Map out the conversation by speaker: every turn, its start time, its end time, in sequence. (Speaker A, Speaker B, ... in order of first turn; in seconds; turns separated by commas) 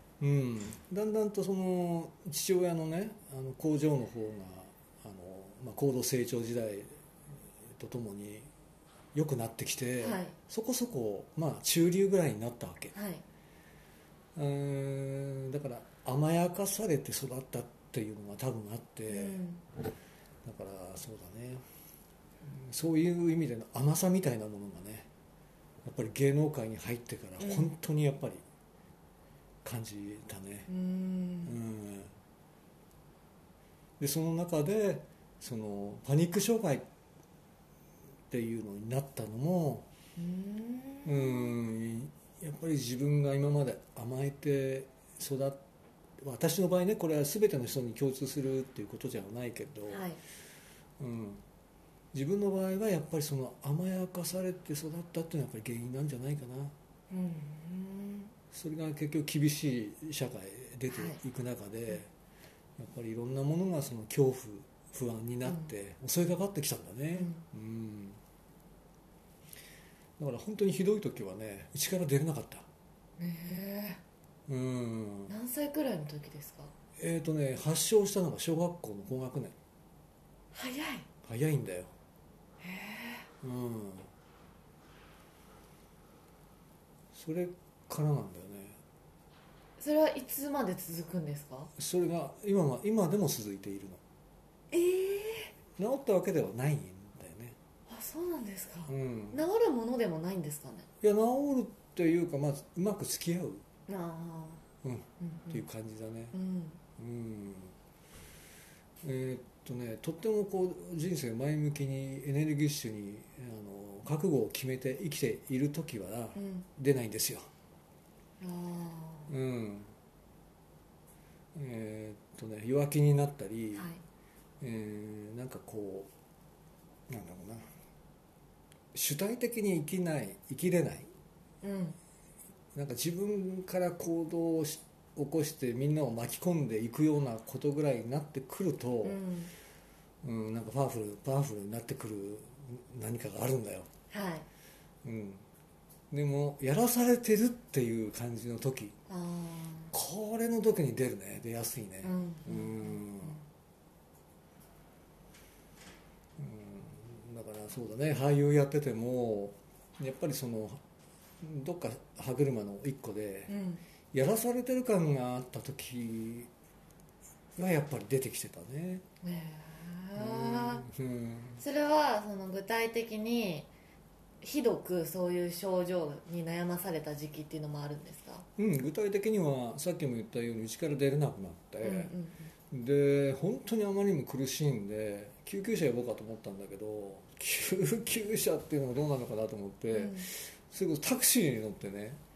Speaker A: 0.2-6.9, Speaker A: 7.8-8.5, Speaker A: 9.1-12.9, Speaker B: 10.0-10.3, Speaker B: 12.9-13.2, Speaker A: 14.3-19.4, Speaker B: 19.1-19.6, Speaker A: 20.4-21.6, Speaker A: 22.4-25.1, Speaker A: 25.9-28.4, Speaker B: 27.4-27.7, Speaker A: 29.6-30.7, Speaker B: 30.7-31.6, Speaker A: 31.4-32.1, Speaker A: 34.0-36.9, Speaker A: 38.3-39.9, Speaker B: 40.2-41.5, Speaker A: 41.0-45.6, Speaker A: 46.2-50.1, Speaker B: 49.9-50.2, Speaker A: 51.0-51.4, Speaker A: 52.1-56.7, Speaker B: 57.1-58.3, Speaker A: 58.5-62.1, Speaker B: 60.9-61.2, Speaker A: 62.8-68.2, Speaker B: 67.2-67.4, Speaker A: 70.2-72.7, Speaker B: 73.2-74.0, Speaker A: 74.5-75.3, Speaker B: 75.3-76.7, Speaker A: 77.0-79.5, Speaker B: 80.5-81.1, Speaker A: 81.2-81.9, Speaker B: 82.6-83.3, Speaker A: 83.4-84.1, Speaker A: 87.1-88.8, Speaker B: 89.8-91.7, Speaker A: 91.8-94.0, Speaker B: 94.7-95.5, Speaker A: 95.8-97.5, Speaker B: 97.9-100.9, Speaker A: 98.9-99.4, Speaker A: 101.0-103.6, Speaker B: 103.9-104.6, Speaker A: 104.8-106.4, Speaker B: 105.2-105.6, Speaker B: 106.3-106.8, Speaker A: 107.0-107.7, Speaker A: 109.0-117.5, Speaker B: 116.4-116.7, Speaker B: 118.4-119.3, Speaker A: 119.3-119.9, Speaker A: 121.5-123.9, Speaker B: 123.8-124.0, Speaker A: 124.6-126.1, Speaker A: 127.1-127.7, Speaker A: 128.9-131.1, Speaker B: 131.6-132.0, Speaker A: 132.8-139.2, Speaker B: 139.0-139.5, Speaker A: 140.2-143.9, Speaker B: 144.1-144.4, Speaker A: 145.0-145.4, Speaker A: 146.1-148.9, Speaker B: 149.1-149.9, Speaker A: 149.9-153.4, Speaker B: 152.0-153.3, Speaker A: 156.4-160.8, Speaker A: 161.4-163.6, Speaker B: 163.5-163.8, Speaker A: 164.1-166.5, Speaker A: 167.6-169.0, Speaker B: 169.2-170.8, Speaker A: 170.2-171.6, Speaker B: 171.6-173.7, Speaker B: 174.4-178.4, Speaker A: 178.6-182.1, Speaker B: 181.8-182.5, Speaker A: 182.7-192.2, Speaker B: 189.9-190.3